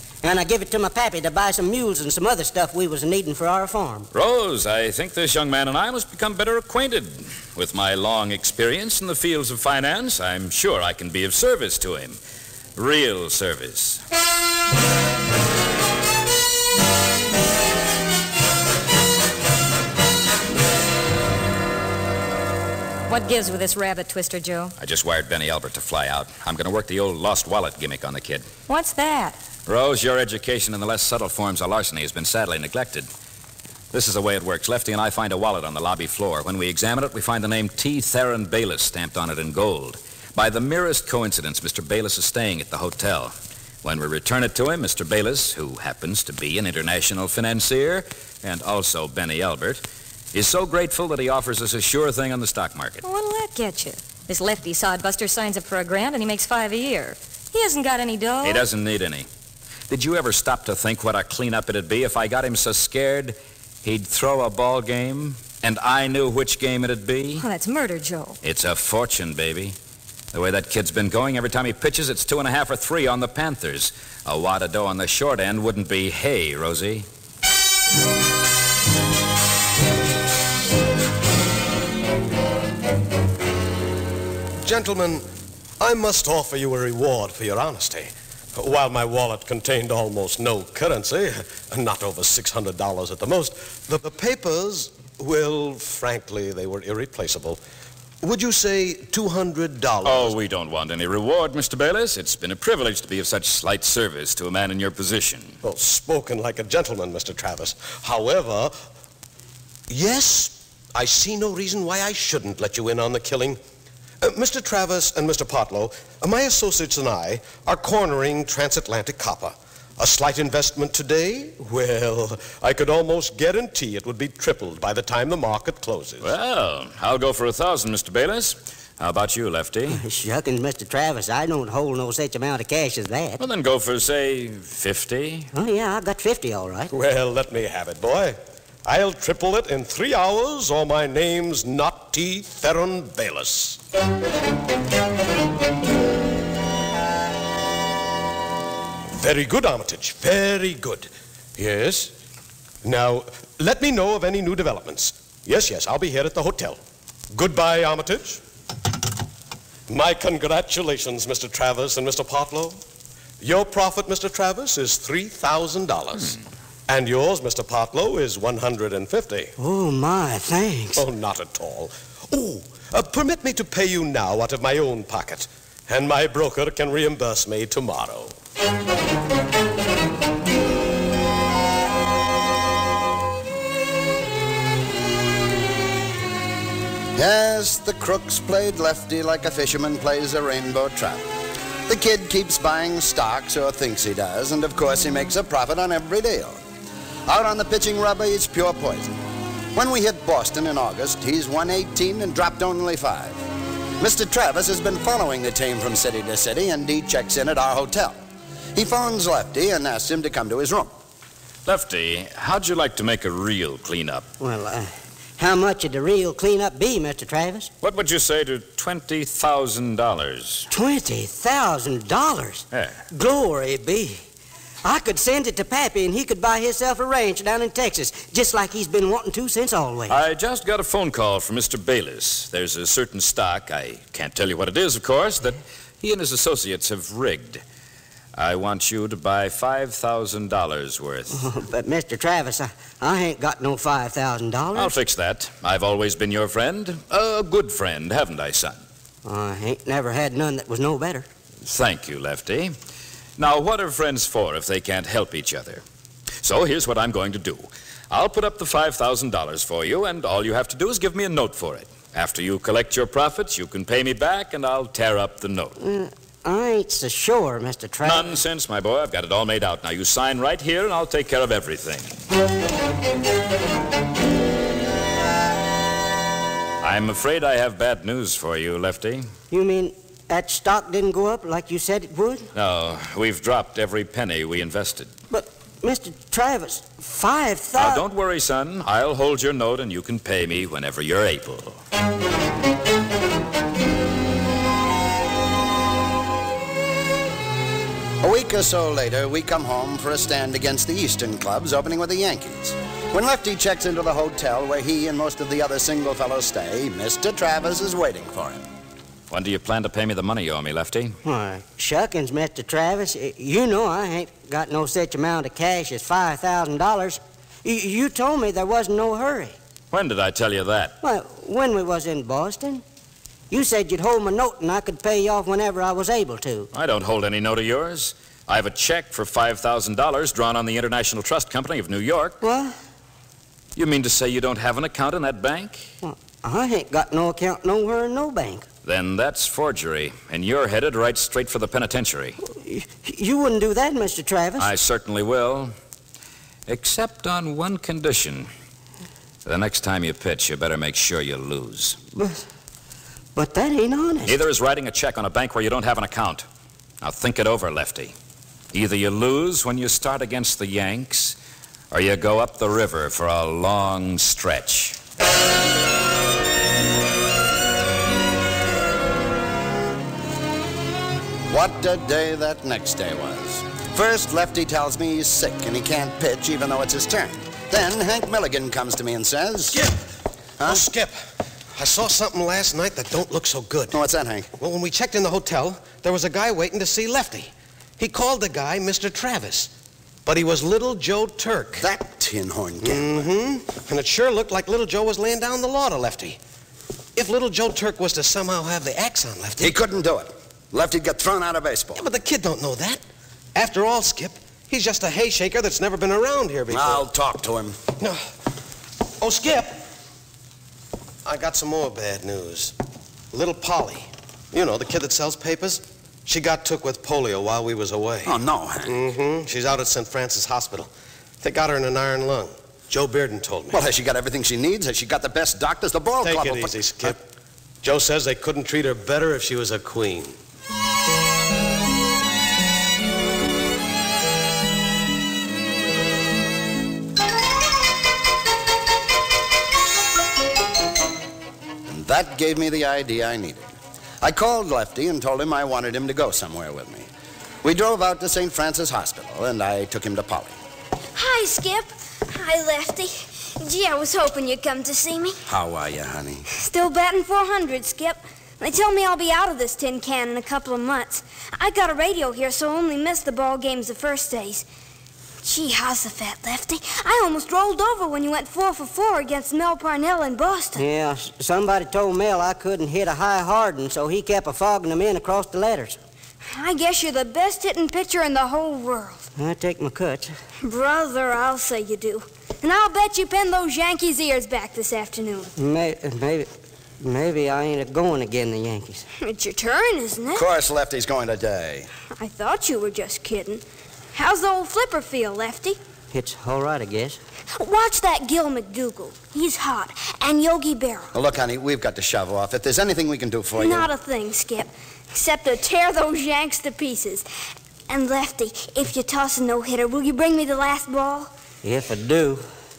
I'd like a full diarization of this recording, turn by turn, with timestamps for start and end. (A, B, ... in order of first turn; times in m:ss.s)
0:00.2-0:04.1 A
0:04.1-0:12.2 B
0:12.8-0:14.0 B
0:23.1-0:24.7 C
0:24.8-0:28.5 B
0:28.7-0:29.4 C
0:29.7-0:33.1 B
0:33.9-0:53.0 B
0:53.0-0:58.7 C
0:58.4-0:59.3 B
0:59.9-1:07.5 B
1:07.4-1:08.4 C
1:08.4-1:09.8 B
1:10.3-1:17.1 B
1:24.6-1:25.3 D
1:25.8-1:37.6 D
1:38.2-1:40.3 D
1:40.0-1:45.6 B
1:45.6-1:48.7 D
1:49.9-1:53.6 D
1:54.2-2:06.3 D
2:06.2-2:10.0 B
2:09.9-2:13.4 A
2:13.4-2:15.5 B
2:15.5-2:16.9 A
2:16.9-2:23.8 D
2:29.1-2:32.1 D
2:32.8-2:36.8 D
2:37.3-2:38.4 D
2:39.9-2:42.8 D
2:43.4-2:46.4 D
2:46.9-2:49.5 D
2:49.6-2:51.1 A
2:51.0-2:58.4 D
3:07.2-3:11.3 E
3:11.9-3:16.6 E
3:17.3-3:19.1 E
3:19.8-3:23.4 E
3:24.0-3:28.2 E
3:28.8-3:30.9 E
3:31.7-3:34.3 B
3:34.4-3:37.7 A
3:37.8-3:40.7 B
3:40.7-3:44.2 A
3:42.7-3:43.0 B
3:44.8-3:50.2 A
3:50.1-3:57.6 B
3:58.4-4:01.4 B
4:01.3-4:04.9 A
4:04.8-4:08.8 B
4:09.2-4:11.3 A
4:11.6-4:12.8 B
4:13.4-4:15.8 B
4:16.4-4:25.8 B
4:25.8-4:28.3 A
4:28.0-4:32.1 B
4:36.8-4:39.3 B
4:39.5-4:42.5 A
4:42.6-4:45.1 B
4:45.3-4:48.0 A
4:47.8-4:51.8 B
4:58.2-5:08.6 E
5:09.3-5:11.2 B
5:11.2-5:19.6 A
5:19.9-5:21.0 B
5:21.0-5:22.8 A
5:23.5-5:26.7 A
5:26.7-5:32.4 B
5:32.4-5:32.7 A
5:33.8-5:35.9 B
5:36.0-5:38.7 A
5:38.8-5:42.4 B
5:42.5-5:44.7 A
5:44.6-5:45.7 B
5:46.7-5:48.5 B
5:49.4-5:52.0 B
5:52.2-5:52.4 A
5:53.4-5:54.4 A
5:54.3-5:56.4 B
5:57.0-5:58.2 B
5:58.7-6:01.4 B
6:01.9-6:05.0 B
6:11.5-6:19.8 E
6:20.6-6:20.8 E
6:20.6-6:21.2 D
6:21.8-6:24.0 D
6:23.9-6:24.5 E
6:24.6-6:29.7 D
6:30.3-6:31.9 D
6:31.8-6:33.3 E
6:32.8-6:36.4 D
6:37.2-6:39.7 D
6:39.6-6:42.0 E
6:42.0-6:43.0 D
6:43.6-6:47.1 D
6:46.7-6:47.8 E
6:49.2-6:49.8 D
6:51.2-6:52.7 D
6:53.3-7:03.9 D
6:58.2-6:59.0 E
7:03.7-7:07.2 E
7:06.2-7:07.2 D
7:07.8-7:10.4 D
7:21.9-7:27.1 E
7:27.6-7:30.6 E
7:31.2-7:35.4 F
7:35.5-7:36.4 E
7:36.5-7:44.6 F
7:45.4-7:50.8 F
7:50.8-7:56.0 A
7:56.4-7:59.2 F
7:59.4-8:00.4 A
8:00.6-8:05.5 F
8:05.6-8:06.5 A
8:07.0-8:09.0 A
8:09.2-8:10.5 F
8:10.4-8:11.9 E
8:12.2-8:15.8 F
8:16.1-8:17.2 A
8:17.6-8:21.1 F
8:21.1-8:23.9 E
8:23.6-8:27.2 F
8:27.9-8:31.3 F
8:31.6-8:32.4 A